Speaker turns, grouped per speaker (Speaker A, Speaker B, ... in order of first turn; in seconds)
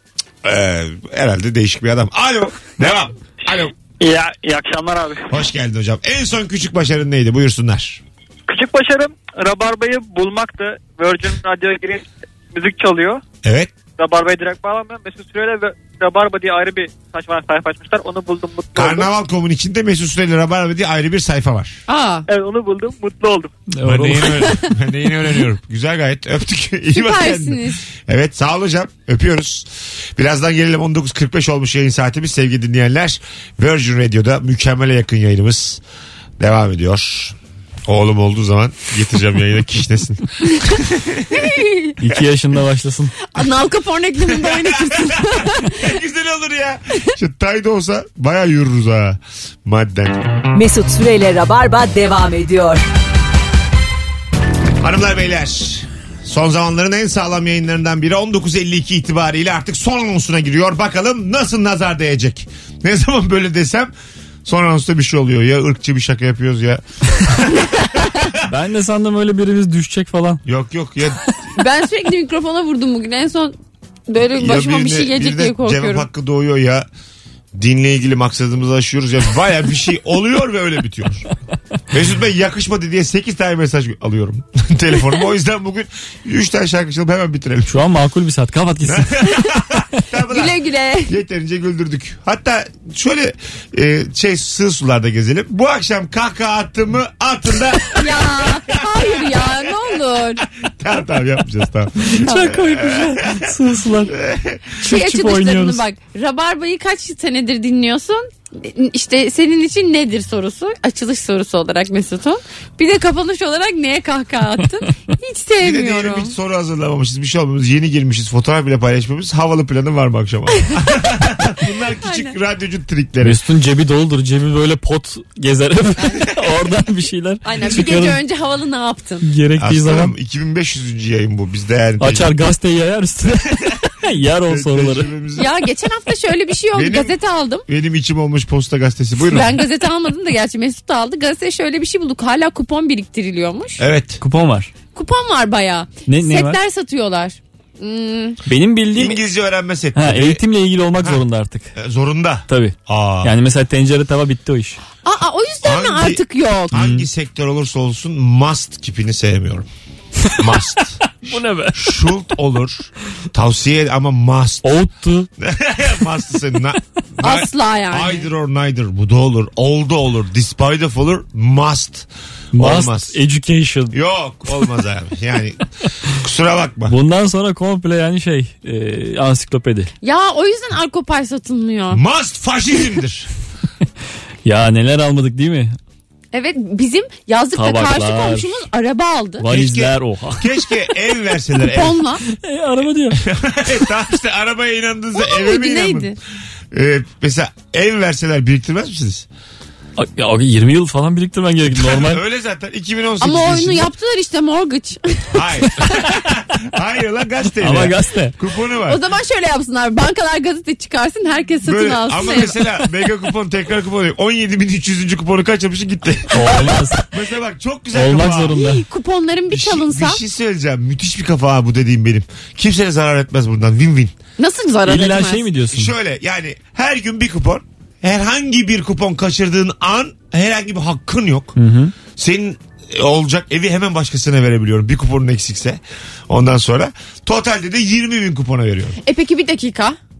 Speaker A: 0.4-3.7, 5.3-8.0, 13.4-13.7, 18.7-21.8, 23.8-35.8, 36.4-37.4, 37.9-41.5, 44.2-50.3, 54.8-63.9, 64.4-68.3, 70.5-71.3, 74.3-76.9, 77.5-81.2, 81.9-87.7, 88.8-99.7, 100.6-103.5, 104.1-104.6, 115.6-123.4, 129.6-132.3, 134.4-135.5, 136.7-137.1, 137.7-139.6, 143.8-144.2, 148.9-150.4, 151.8-153.3, 155.6-159.7, 160.3-161.1, 161.7-164.6, 165.4-173.2, 173.9-176.9, 181.9-183.3, 189.5-192.0, 193.2-196.2, 196.7-199.2, 201.7-203.9, 205.3-209.0, 211.6-218.5, 219.5-224.1, 225.7-231.6, 232.1-239.0
Speaker B: 3.5-5.3, 8.5-13.2, 14.0-19.1, 22.3-23.6
Speaker C: 21.9-22.2, 26.9-27.8, 41.3-42.0, 43.3-45.9, 71.6-73.5, 74.1-76.1, 90.3-91.1, 98.0-100.4, 104.8-116.3, 122.0-122.3, 127.4-129.3, 135.3-137.6, 139.2-143.8, 144.9-148.4, 155.0-156.7, 167.2-168.3, 180.0-182.0, 186.3-189.4, 191.6-192.2, 195.1-196.2, 203.2-205.9, 208.8-212.7, 218.5-220.2, 224.4-225.4, 239.0-240.0
Speaker D: 23.7-24.5, 42.0-43.1, 68.4-70.4, 87.7-89.4, 102.1-104.1, 104.8-105.8, 123.2-128.2, 129.2-130.1, 132.0-135.1, 144.2-144.7, 146.1-146.6, 148.4-149.2, 149.9-151.7, 152.5-154.8, 156.7-157.1, 160.2-160.5, 161.1-162.0, 164.6-165.3, 172.5-174.0, 176.9-179.9, 184.4-185.8, 187.5-188.6, 189.4-190.5, 192.3-193.2, 200.0-202.2, 207.6-208.3, 216.3-217.0, 217.9-218.8, 224.8-225.9, 231.6-231.9
Speaker E: 50.5-52.8